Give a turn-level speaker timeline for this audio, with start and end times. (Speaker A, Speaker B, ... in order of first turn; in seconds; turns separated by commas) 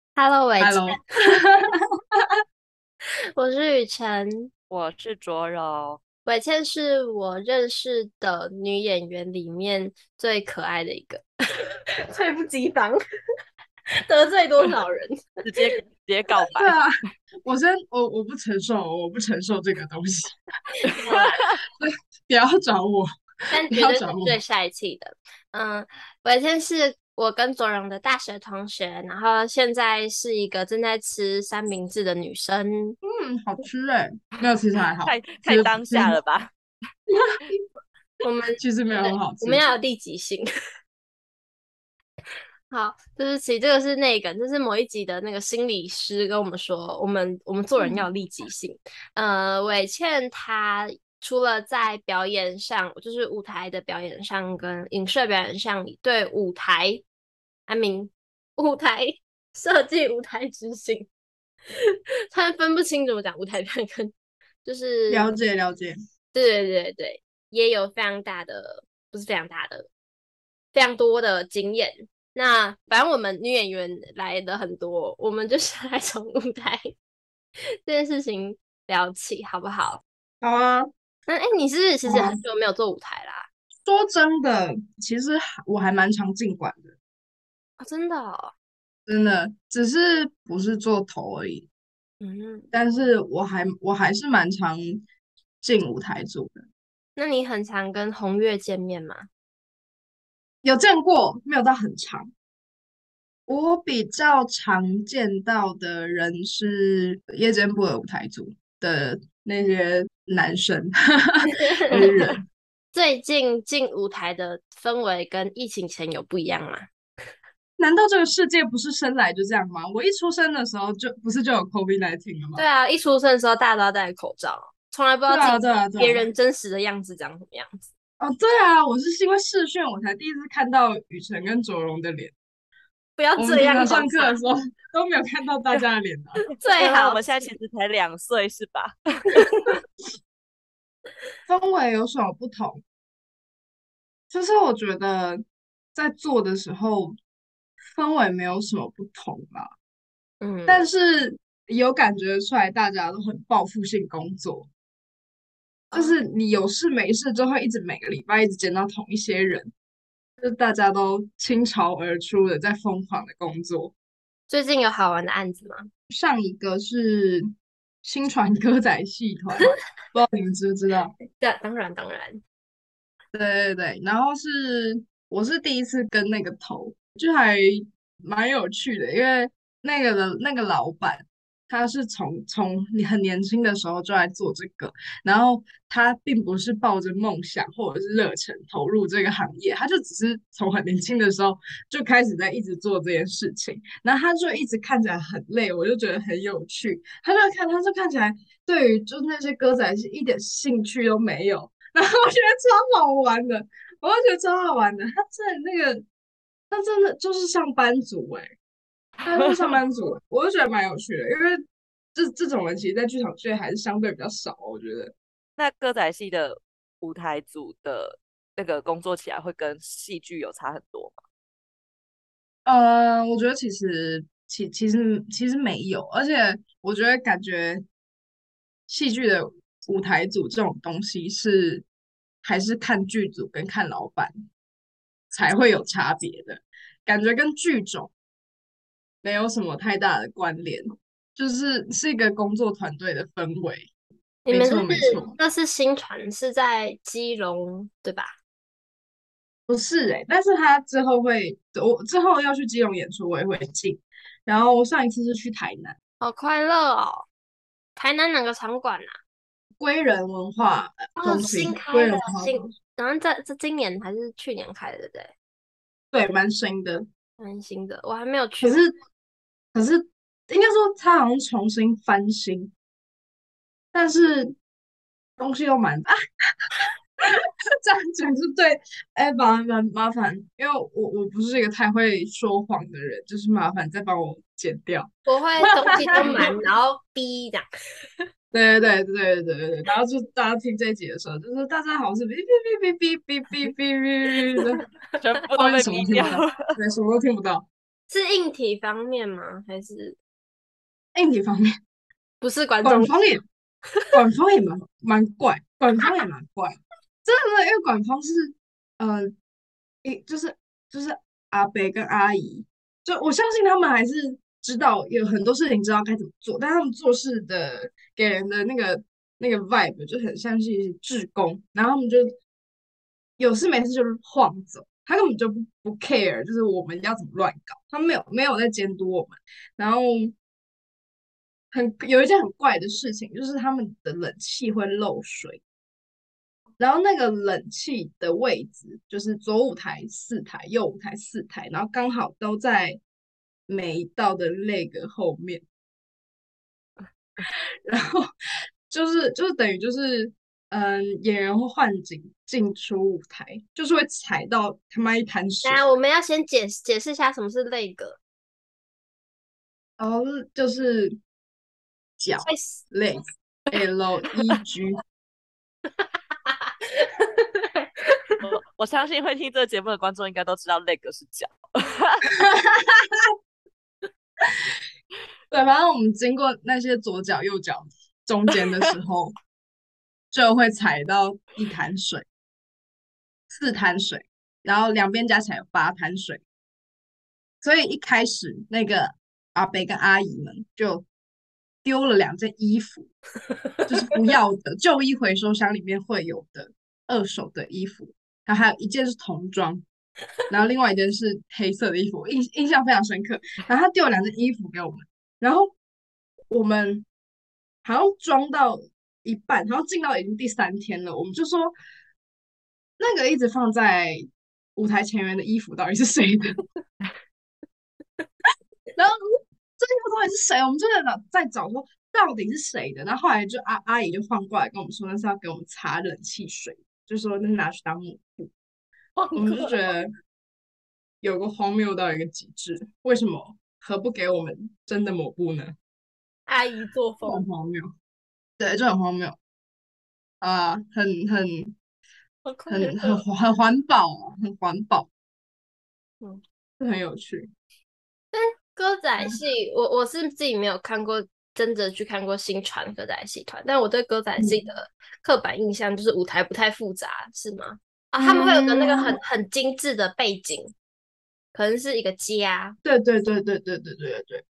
Speaker A: 0.1-1.0, Speaker B: 0.6-2.2, Speaker A: 3.4-4.5, Speaker C: 4.7-6.0, Speaker A: 6.2-11.2, Speaker A: 12.1-13.0, Speaker A: 14.1-15.7, Speaker C: 15.4-16.7, Speaker B: 16.6-16.9, Speaker B: 17.4-20.9, Speaker A: 20.8-21.4, Speaker B: 21.8-23.1, Speaker A: 23.5-33.0, Speaker B: 23.7-24.4, Speaker B: 33.0-36.2, Speaker C: 35.0-36.5, Speaker B: 37.1-37.5, Speaker A: 38.2-40.5, Speaker B: 38.6-39.6, Speaker A: 42.7-57.0, Speaker B: 47.8-48.0, Speaker A: 57.7-61.1, Speaker A: 61.8-65.3, Speaker B: 65.1-66.0, Speaker A: 66.3-69.9, Speaker A: 70.7-76.9, Speaker A: 77.8-80.0, Speaker B: 80.4-80.9, Speaker A: 81.3-83.5, Speaker B: 82.0-82.4, Speaker B: 83.8-86.9, Speaker A: 87.8-88.5, Speaker B: 89.1-91.7, Speaker A: 92.2-92.7, Speaker B: 92.7-95.0, Speaker B: 95.6-96.6, Speaker A: 97.2-99.3, Speaker B: 100.6-102.3, Speaker B: 103.5-112.4, Speaker A: 111.5-112.3, Speaker A: 112.9-116.9, Speaker B: 117.8-122.6, Speaker A: 122.5-127.9, Speaker B: 125.3-126.2, Speaker B: 128.2-132.3, Speaker A: 133.2-134.3, Speaker B: 133.4-136.4, Speaker A: 136.6-137.5, Speaker C: 136.7-139.7, Speaker A: 139.3-139.8, Speaker B: 141.5-142.8, Speaker B: 144.3-145.4, Speaker B: 145.9-147.2, Speaker B: 147.9-149.7, Speaker A: 150.4-150.8, Speaker B: 150.7-154.7, Speaker A: 155.9-156.2, Speaker B: 155.9-159.7, Speaker B: 160.4-163.9, Speaker A: 164.5-165.9, Speaker B: 166.1-167.5, Speaker B: 168.0-171.1, Speaker A: 171.3-172.4, Speaker B: 173.3-206.1, Speaker B: 206.7-208.5, Speaker C: 209.2-209.8, Speaker B: 209.2-211.6, Speaker B: 212.1-215.1, Speaker C: 215.6-221.2, Speaker B: 222.6-227.8, Speaker B: 228.9-231.8, Speaker B: 232.4-234.4, Speaker B: 235.3-238.1, Speaker B: 239.2-243.9, Speaker A: 244.4-248.4, Speaker B: 244.5-245.3, Speaker B: 249.7-255.9, Speaker A: 256.2-257.2, Speaker A: 257.9-259.2, Speaker B: 259.8-262.7, Speaker A: 261.2-265.3, Speaker B: 266.1-267.1, Speaker A: 267.4-268.8, Speaker B: 268.6-268.9, Speaker B: 269.7-272.7, Speaker B: 273.9-274.5, Speaker B: 275.4-276.1, Speaker B: 277.8-285.1, Speaker A: 285.3-287.6, Speaker B: 285.9-286.5, Speaker C: 286.2-286.5, Speaker B: 288.5-294.8, Speaker A: 294.6-294.8, Speaker C: 295.2-296.6, Speaker B: 295.5-297.7, Speaker A: 298.1-300.1, Speaker B: 301.1-301.7, Speaker A: 302.4-303.1, Speaker B: 302.8-303.4, Speaker B: 304.1-309.4, Speaker B: 310.0-322.3, Speaker B: 323.4-330.3, Speaker B: 331.7-335.6, Speaker B: 336.8-343.0, Speaker B: 343.7-345.6, Speaker B: 347.4-348.3, Speaker B: 348.9-355.8, Speaker A: 355.6-358.2, Speaker B: 360.0-361.1, Speaker B: 362.2-365.0, Speaker A: 362.4-362.8, Speaker A: 366.0-368.4, Speaker C: 368.4-372.3, Speaker B: 372.4-373.3, Speaker B: 375.5-379.3, Speaker B: 380.3-382.2, Speaker B: 383.5-386.4, Speaker B: 387.6-391.1, Speaker B: 391.8-393.1, Speaker B: 393.9-399.8, Speaker B: 400.5-405.7, Speaker B: 406.5-407.1, Speaker B: 407.8-411.7, Speaker B: 413.0-416.6, Speaker B: 419.8-428.5, Speaker A: 429.2-429.7, Speaker B: 429.4-430.1, Speaker B: 431.2-435.7, Speaker A: 436.5-437.4, Speaker B: 437.2-437.9, Speaker B: 438.6-439.4, Speaker B: 440.4-441.8, Speaker A: 442.4-443.2, Speaker B: 442.7-445.1, Speaker B: 446.8-447.5, Speaker A: 448.3-460.7, Speaker B: 454.4-454.6, Speaker B: 458.2-459.2, Speaker A: 461.5-462.8, Speaker B: 462.8-464.4